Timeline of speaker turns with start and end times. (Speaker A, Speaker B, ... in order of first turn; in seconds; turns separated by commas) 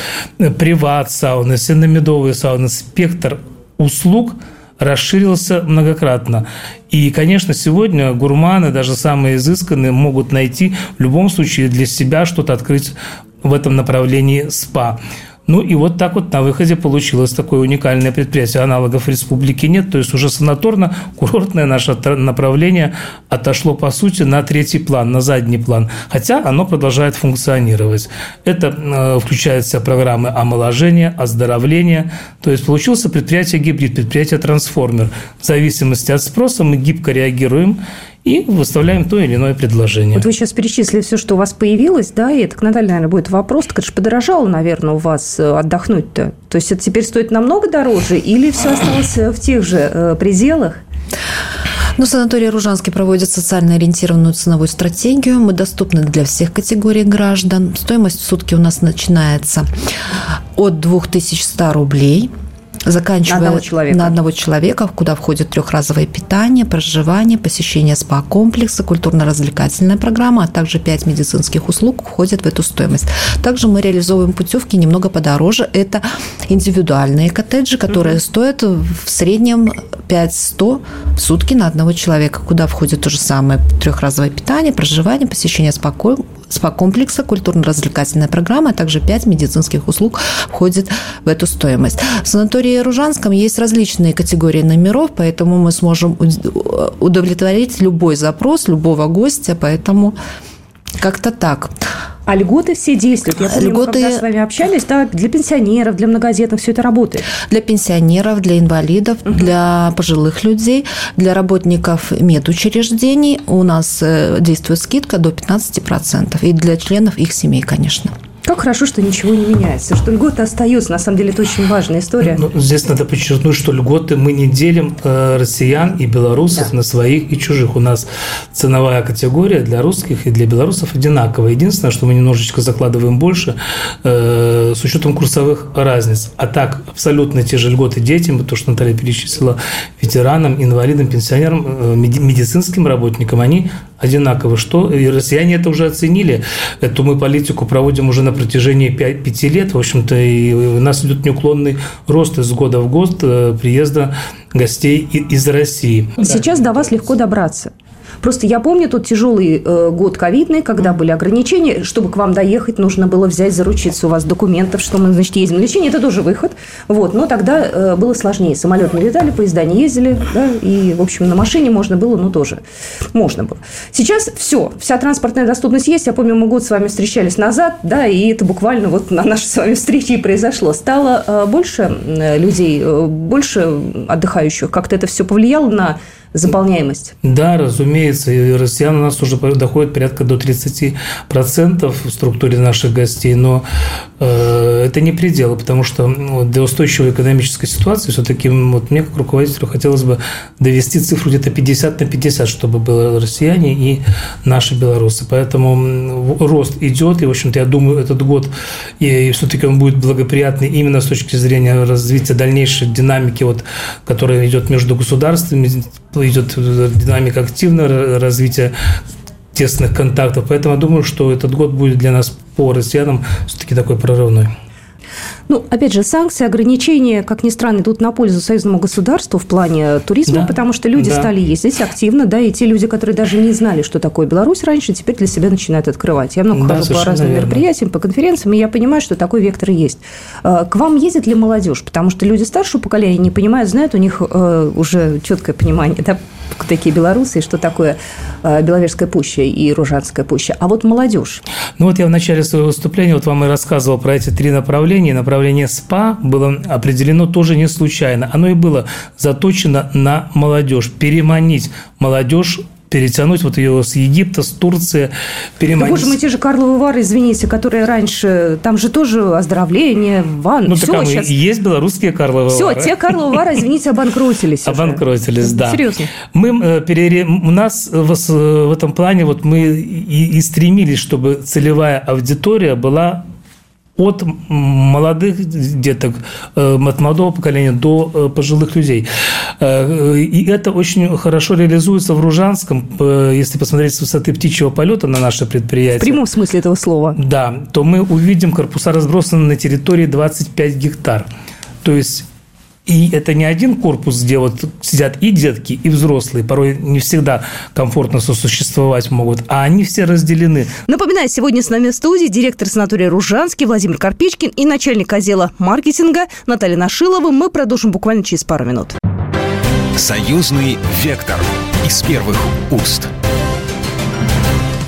Speaker A: 0.4-40.2, Speaker B: 40.1-50.8, Speaker C: 52.0-59.7, Speaker C: 60.5-62.3, Speaker C: 62.9-100.2, Speaker B: 63.2-64.1, Speaker C: 101.0-101.7, Speaker B: 102.3-107.2, Speaker C: 103.4-104.2, Speaker C: 107.5-118.1, Speaker B: 118.5-122.4, Speaker A: 122.2-156.8, Speaker B: 156.2-172.6, Speaker B: 173.1-187.1, Speaker A: 187.2-193.7, Speaker A: 194.2-218.7, Speaker A: 219.5-224.5, Speaker B: 225.5-251.4, Speaker A: 230.3-231.3, Speaker A: 236.5-237.6, Speaker A: 251.8-266.2, Speaker B: 265.8-271.3, Speaker A: 270.6-273.4, Speaker B: 272.5-276.1, Speaker A: 274.6-283.2, Speaker A: 284.0-289.1, Speaker A: 289.6-296.2, Speaker B: 296.0-297.2, Speaker A: 297.2-301.3, Speaker A: 301.8-302.3, Speaker A: 302.9-310.7, Speaker B: 310.9-319.0, Speaker D: 319.9-323.1